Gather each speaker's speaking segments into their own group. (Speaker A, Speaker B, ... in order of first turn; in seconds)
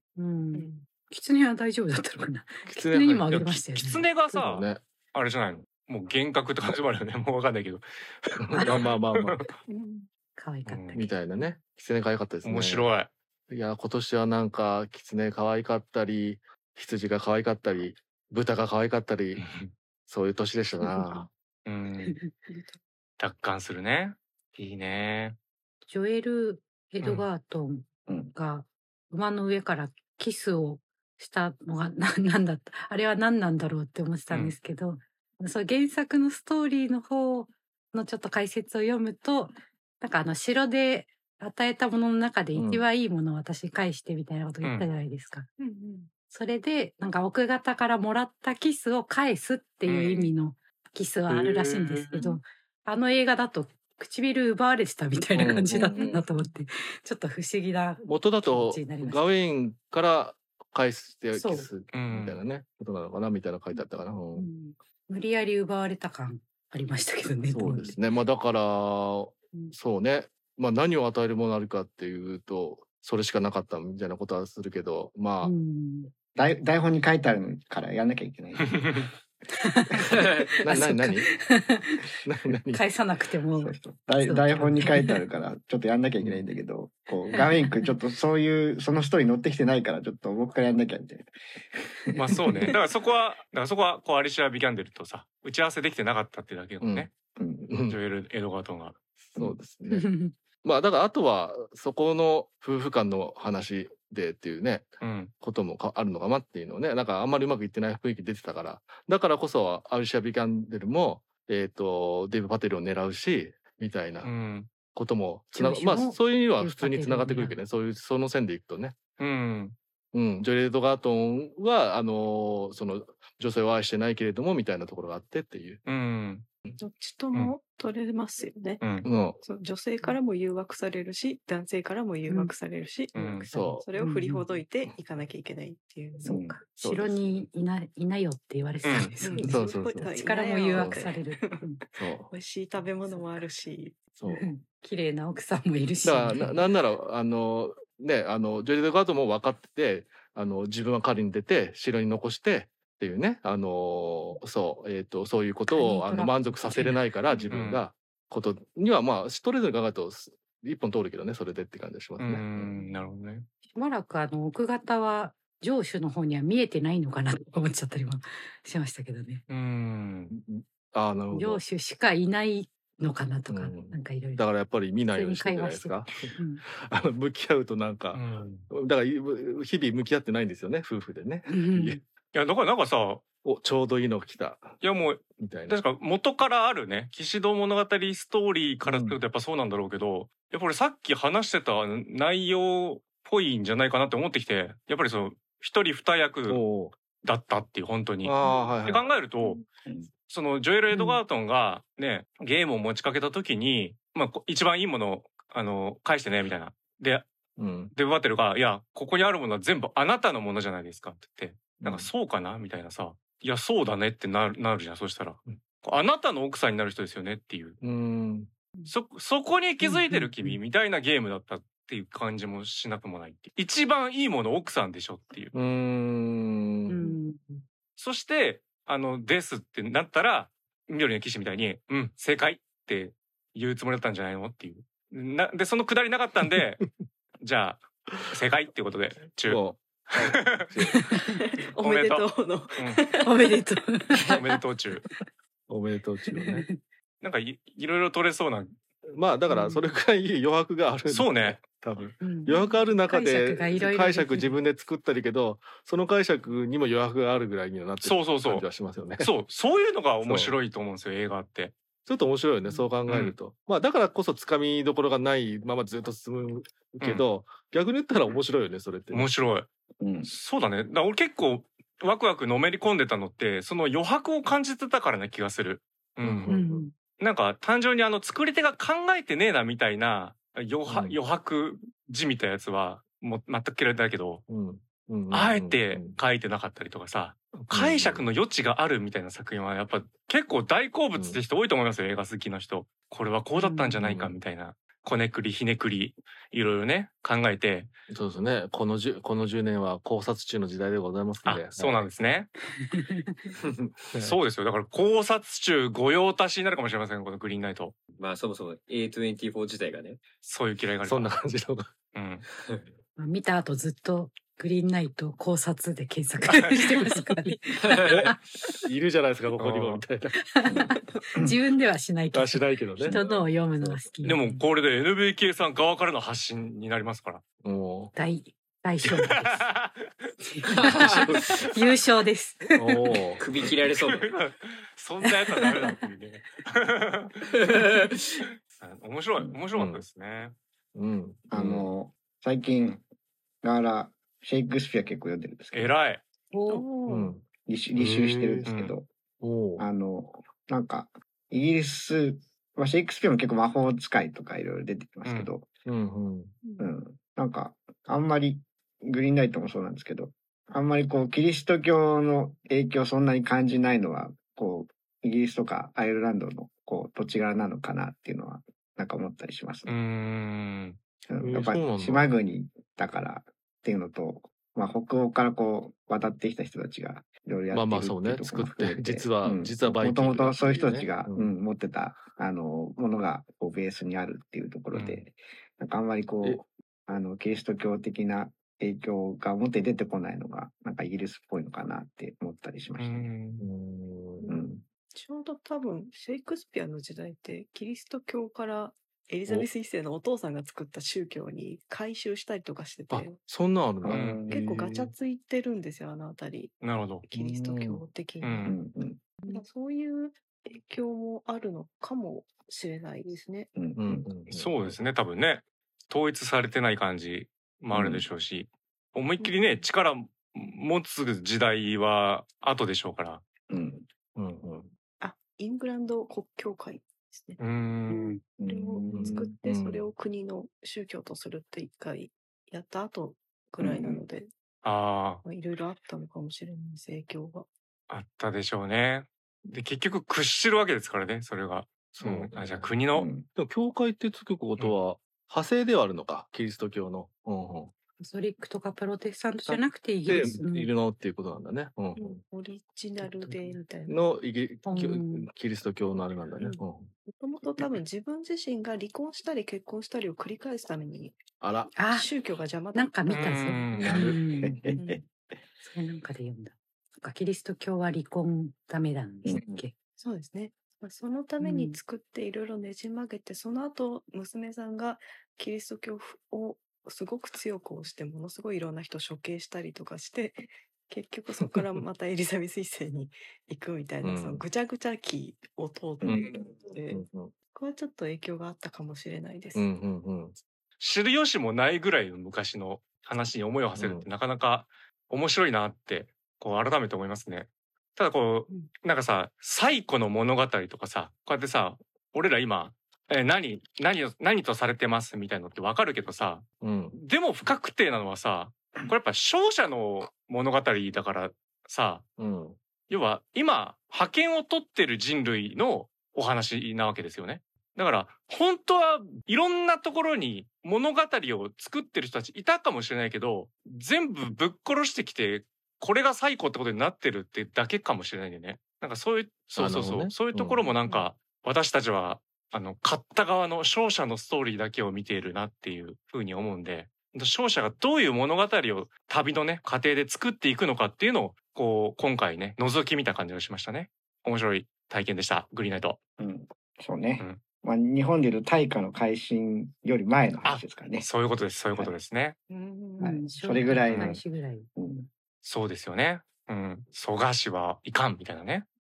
Speaker A: 0.1-4.1, 10.3-11.1, 20.8-21.2, 25.9-45.5, 46.3-59.2, 61.3-61.7, 64.3-68.0, 75.4-76.1, 79.6-82.0, 82.7-85.2, 87.3-87.9, 92.5-92.7, 99.9-100.3, 115.5-117.6, 132.3-132.5, 133.5-134.5, 136.2-141.8, 144.2-146.6, 155.7-157.0, 162.8-163.1, 163.7-169.4, 171.3-174.4, 175.1-176.6, 181.5-182.0, 200.9-201.2, 219.8-220.3, 226.9-227.6, 243.2-244.6, 246.3-246.8, 249.5-249.9, 252.2-254.6, 276.5-276.9, 293.6-294.0, 302.8-303.5, 313.2-318.4, 320.5-324.6, 328.1-329.6, 330.4-333.2, 335.2-336.0, 346.5-346.9, 448.2-450.9, 454.8-455.5, 461.9-462.3, 462.9-465.0, 465.8-469.9, 471.6-472.0, 552.7-554.9
Speaker B: 0.5-0.8, 9.7-10.1, 22.5-22.8, 45.6-46.1, 55.8-56.2, 126.8-128.8, 129.4-136.3, 139.2-144.1, 198.4-198.7, 241.2-244.3, 346.7-347.3, 356.6-356.9, 394.4-403.4, 404.5-406.8, 407.3-408.8, 409.4-413.7, 419.4-419.8, 425.2-427.6, 428.1-434.5, 435.4-437.7, 452.1-454.2, 456.6-461.4, 462.0-463.2, 470.2-489.9, 552.8-553.1
Speaker C: 2.6-3.6, 4.3-4.8, 8.4-9.4, 10.9-12.9, 13.5-19.4, 20.1-21.3, 42.5-42.9, 51.3-52.2, 55.3-56.2, 58.0-64.5, 67.5-75.5, 80.2-81.3, 82.2-82.8, 96.8-97.1, 97.7-98.0, 99.4-114.3, 114.8-119.0, 120.1-125.8, 129.0-129.4, 133.4-133.9, 136.8-137.4, 139.3-140.1, 140.7-141.0, 142.0-142.3, 144.1-144.5, 146.0-162.7, 170.3-171.6, 173.5-182.0, 183.4-184.8, 185.3-185.8, 188.8-189.2, 196.5-196.9, 198.2-199.1, 207.6-207.9, 211.8-212.1, 217.8-218.5, 225.5-227.2, 239.4-241.0, 245.7-246.7, 249.1-259.3, 260.2-260.5, 262.1-269.3, 276.2-276.9, 280.9-281.2, 284.5-286.2, 287.5-288.2, 291.1-291.4, 294.0-294.4, 298.1-302.0, 303.6-304.4, 311.0-311.9, 317.9-320.5, 322.3-324.0, 327.6-328.1, 331.3-331.6, 332.7-333.4, 339.7-340.0, 340.9-341.9, 347.1-348.7, 349.4-349.9, 355.8-356.5, 371.4-372.3, 377.7-381.5, 393.6-394.5, 403.1-405.1, 407.3-408.0, 413.9-415.0, 424.4-424.9, 429.1-430.1, 442.1-442.9, 443.5-447.9, 449.6-452.4, 454.1-457.1, 461.6-462.0, 484.2-484.6, 486.2-486.6, 487.1-487.5, 489.7-490.6, 494.0-494.3, 506.8-507.2, 512.4-512.8, 529.7-530.8
Speaker D: 3.3-9.5, 10.7-11.0, 12.4-13.1, 19.4-19.7, 21.6-22.1, 23.2-25.4, 34.3-34.5, 49.8-50.2, 61.9-62.4, 78.8-79.0, 92.2-97.1, 97.9-99.0, 105.0-105.3, 114.2-114.7, 119.2-119.8, 125.8-126.5, 128.8-129.1, 133.1-133.5, 138.8-139.1, 157.5-157.8, 162.2-163.5, 169.5-170.3, 178.1-178.7, 182.3-183.2, 184.8-196.6, 197.2-198.3, 198.8-199.6, 200.3-207.3, 207.9-217.8, 218.9-225.5, 228.0-236.8, 237.4-240.7, 241.8-243.0, 244.3-245.0, 247.2-248.7, 251.1-251.6, 258.0-258.7, 259.2-261.7, 263.1-263.3, 269.1-269.7, 270.2-276.5, 277.2-284.4, 285.3-297.9, 301.4-302.5, 304.2-307.9, 310.4-311.4, 312.1-312.4, 319.6-320.0, 324.2-327.4, 329.3-330.1, 334.0-337.4, 338.8-340.6, 345.7-346.2, 348.7-348.9, 369.9-371.0, 384.9-385.2, 393.0-393.6, 404.1-404.4, 406.8-407.3, 408.4-408.7, 414.5-423.4, 427.6-428.4, 434.8-435.4, 438.1-443.3, 463.3-464.3, 491.0-512.2, 513.1-546.2, 550.6-552.6, 554.0-554.4, 555.6-558.9
Speaker E: 28.1-28.3, 76.3-79.0, 83.6-92.4, 97.4-97.7, 136.2-136.6, 270.0-270.3, 320.6-321.5, 341.5-343.0, 343.6-345.9, 347.6-349.1, 349.8-355.7, 356.8-370.0, 371.3-393.3, 394.5-394.8, 404.0-404.6, 408.6-409.2, 413.8-414.3, 417.9-418.2, 423.7-424.1, 428.6-429.5, 433.8-434.2, 443.1-443.4, 464.1-465.2, 469.4-469.8, 546.4-551.2, 553.2-554.4, 555.0-555.3
Speaker F: 308.2-310.2, 333.4-334.3